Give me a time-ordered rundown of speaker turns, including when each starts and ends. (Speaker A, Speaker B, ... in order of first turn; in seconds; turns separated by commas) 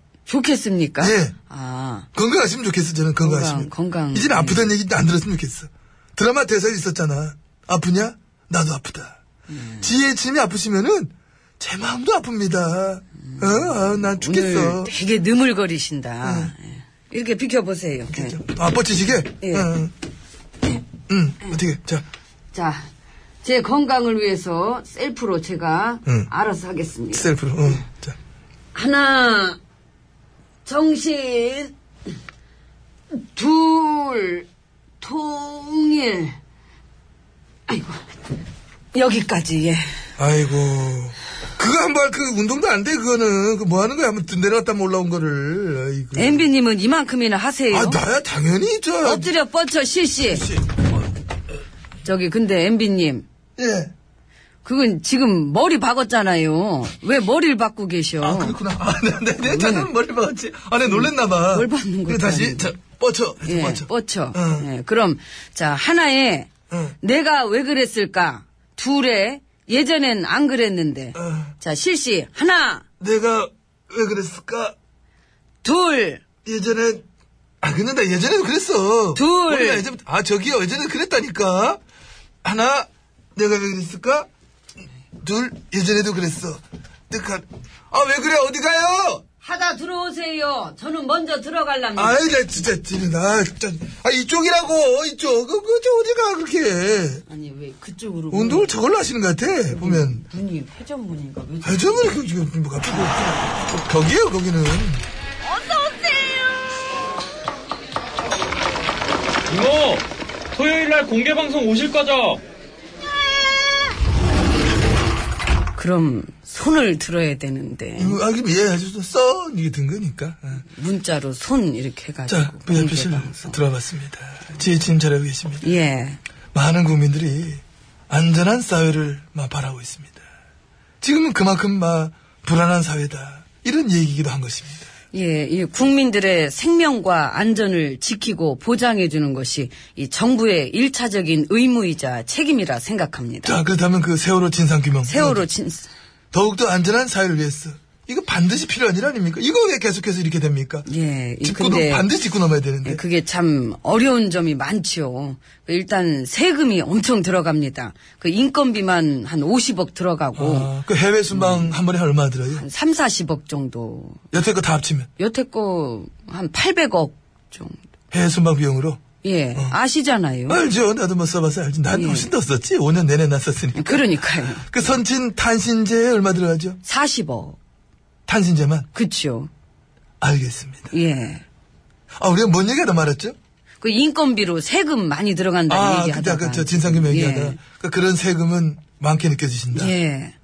Speaker A: 0.3-2.1, Speaker B: 1.0-1.3, Speaker B: 2.1-9.2, Speaker A: 3.2-4.7, Speaker A: 9.5-9.9, Speaker B: 9.8-14.9, Speaker A: 13.3-18.4, Speaker B: 16.2-16.5, Speaker B: 18.1-19.9, Speaker A: 19.4-19.7, Speaker B: 21.1-22.1, Speaker A: 22.5-22.9, Speaker A: 23.4-27.3, Speaker B: 27.1-28.1, Speaker A: 28.7-29.6, Speaker A: 30.6-31.7, Speaker A: 33.1-34.5, Speaker A: 35.0-36.4, Speaker A: 37.7-38.0, Speaker A: 38.9-39.8, Speaker B: 40.2-46.5, Speaker A: 46.1-48.0, Speaker B: 47.7-49.3, Speaker A: 49.0-50.5, Speaker B: 50.3-50.8, Speaker A: 52.0-53.2, Speaker B: 53.6-53.9, Speaker A: 54.6-58.6, Speaker B: 58.2-64.7, Speaker A: 59.4-59.9, Speaker A: 60.9-62.7, Speaker A: 63.4-66.5, Speaker A: 67.0-72.8, Speaker B: 71.1-71.5, Speaker B: 73.0-74.7, Speaker A: 75.6-76.2, Speaker B: 76.4-77.0, Speaker B: 77.6-81.8, Speaker A: 79.1-79.8, Speaker B: 82.4-84.3, Speaker B: 85.2-89.2, Speaker A: 89.4-92.2, Speaker B: 92.0-97.2, Speaker A: 97.3-98.7, Speaker B: 98.3-100.2, Speaker A: 99.7-102.2, Speaker B: 101.6-105.0, Speaker A: 105.5-106.4, Speaker C: 109.5-112.4, Speaker A: 115.7-118.2, Speaker B: 118.0-120.6, Speaker A: 120.6-123.6, Speaker B: 122.3-125.7, Speaker A: 125.6-126.2, Speaker B: 126.5-130.2, Speaker B: 131.0-134.8, Speaker A: 135.1-143.6, Speaker B: 143.4-145.4, Speaker A: 145.0-145.9, Speaker B: 146.3-150.9, Speaker A: 150.8-152.1, Speaker B: 151.4-153.0, Speaker A: 152.8-160.7, Speaker B: 160.3-162.7, Speaker A: 161.3-161.8, Speaker A: 162.6-164.3, Speaker B: 164.3-165.1, Speaker A: 165.2-167.8, Speaker B: 168.1-169.0, Speaker A: 169.2-170.6, Speaker B: 170.5-176.8, Speaker A: 171.9-172.3, Speaker A: 173.7-174.7, Speaker A: 176.8-177.6, Speaker B: 178.3-178.9, Speaker A: 178.9-179.5, Speaker B: 180.2-180.9, Speaker A: 180.9-181.4, Speaker B: 182.2-183.3, Speaker A: 183.8-187.6, Speaker B: 185.7-189.9, Speaker A: 189.7-190.3